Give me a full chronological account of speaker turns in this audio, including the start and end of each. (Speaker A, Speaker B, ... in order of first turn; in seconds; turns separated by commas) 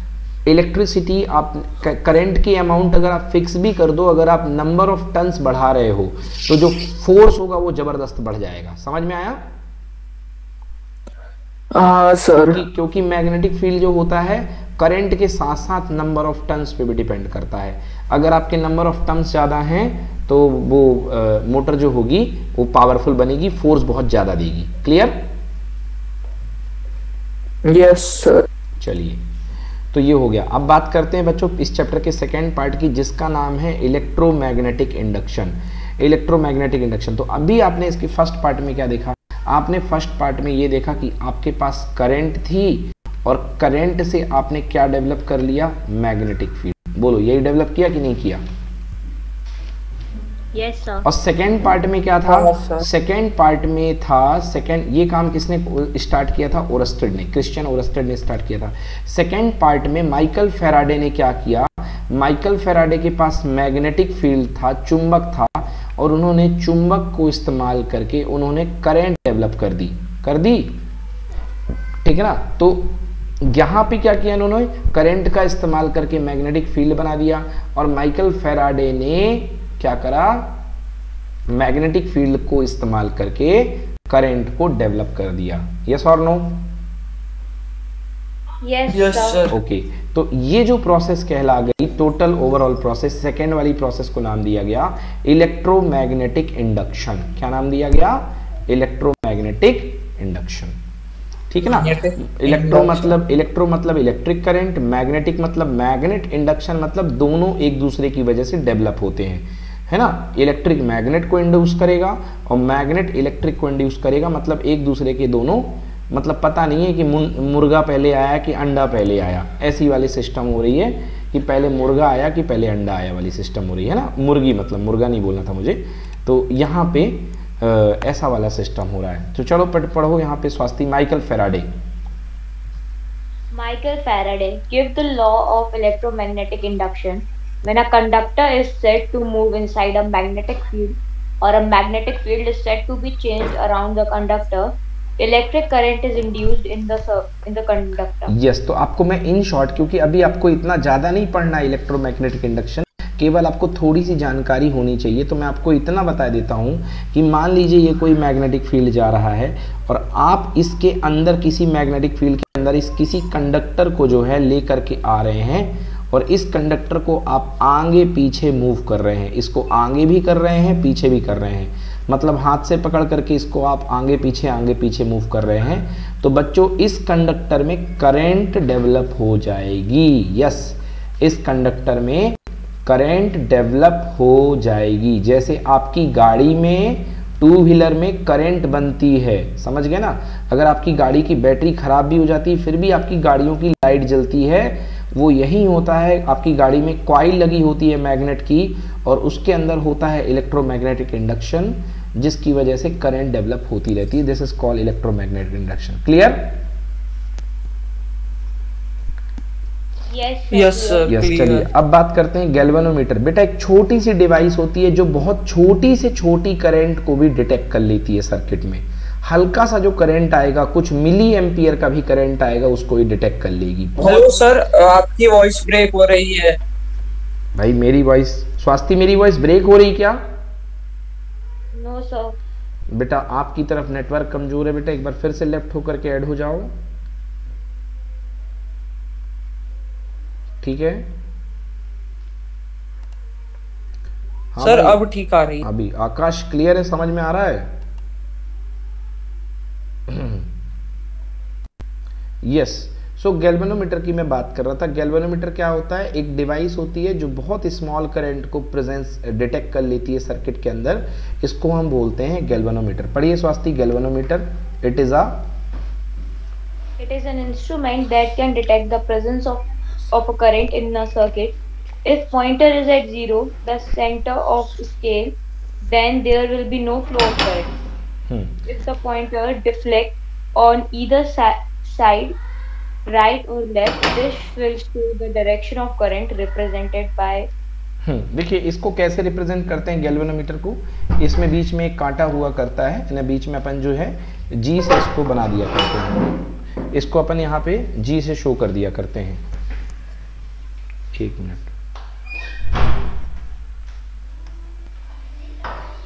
Speaker A: 0.5-9.4, Speaker B: 11.7-12.6, Speaker A: 12.5-25.3, Speaker B: 27.6-28.5, Speaker A: 28.8-29.2, Speaker A: 29.9-48.4, Speaker C: 50.5-51.0, Speaker A: 51.0-70.8, Speaker B: 52.3-52.9, Speaker A: 72.0-80.6, Speaker A: 81.5-86.7, Speaker C: 88.6-89.4, Speaker B: 88.9-89.5, Speaker A: 89.5-100.8, Speaker A: 101.5-131.7, Speaker B: 101.7-103.1, Speaker C: 133.5-148.3, Speaker A: 148.3-206.6, Speaker C: 210.1-211.1, Speaker B: 210.5-211.7, Speaker A: 211.1-224.3, Speaker B: 224.0-226.6, Speaker A: 227.6-230.2, Speaker C: 231.7-232.4, Speaker A: 232.9-236.7, Speaker A: 240.6-241.1, Speaker A: 244.5-245.0, Speaker B: 244.6-245.7, Speaker A: 245.6-247.8, Speaker A: 250.1-250.5, Speaker A: 252.4-265.5, Speaker C: 267.0-277.7, Speaker A: 278.3-278.6, Speaker C: 278.7-282.4, Speaker C: 283.1-287.5, Speaker A: 288.1-299.4, Speaker A: 301.1-301.7